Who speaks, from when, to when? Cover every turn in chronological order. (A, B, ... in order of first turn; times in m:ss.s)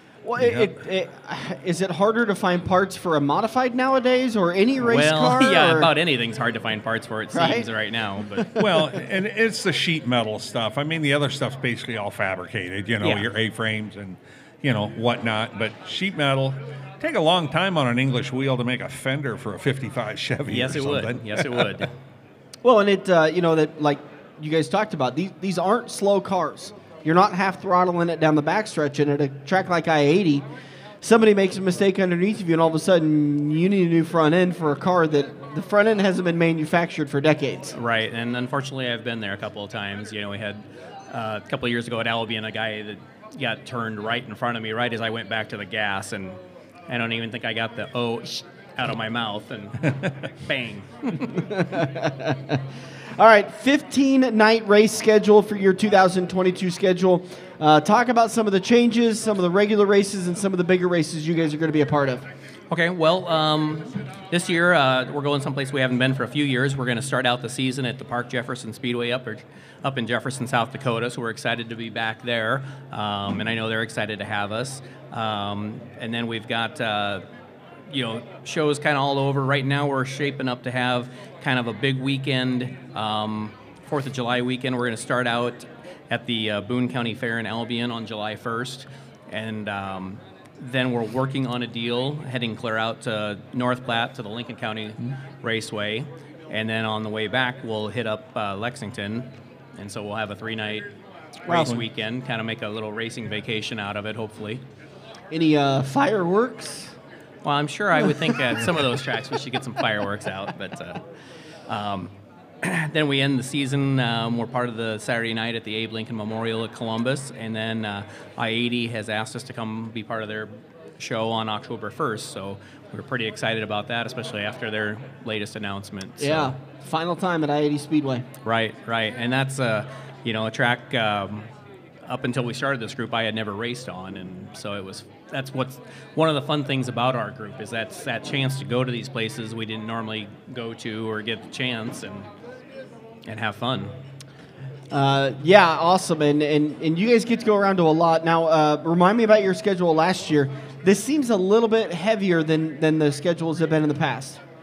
0:00.2-0:05.9 A
0:00.4-0:00.8 B
0:04.8-0:08.6 C
0:07.3-0:07.7 A
0:08.4-0:08.9 A
0:08.6-0:21.8 B
0:13.0-0:13.3 C
0:20.5-0:21.9 C
0:22.6-0:30.4 A
0:31.0-0:37.8 A
0:37.8-0:46.4 C
0:46.9-0:51.4 C
0:51.3-0:52.6 A
0:53.2-1:02.2 A
1:02.7-1:17.2 C
1:17.9-1:40.9 C
1:41.5-1:41.8 A
1:41.5-1:44.6 C
1:45.3-1:46.9 A
1:47.4-1:51.0 C
1:48.1-1:48.4 A
1:51.7-2:06.6 C
2:06.2-2:08.3 A
2:08.4-2:11.5 C
2:12.0-2:22.3 C
2:23.3-2:23.9 C
2:24.9-2:34.4 A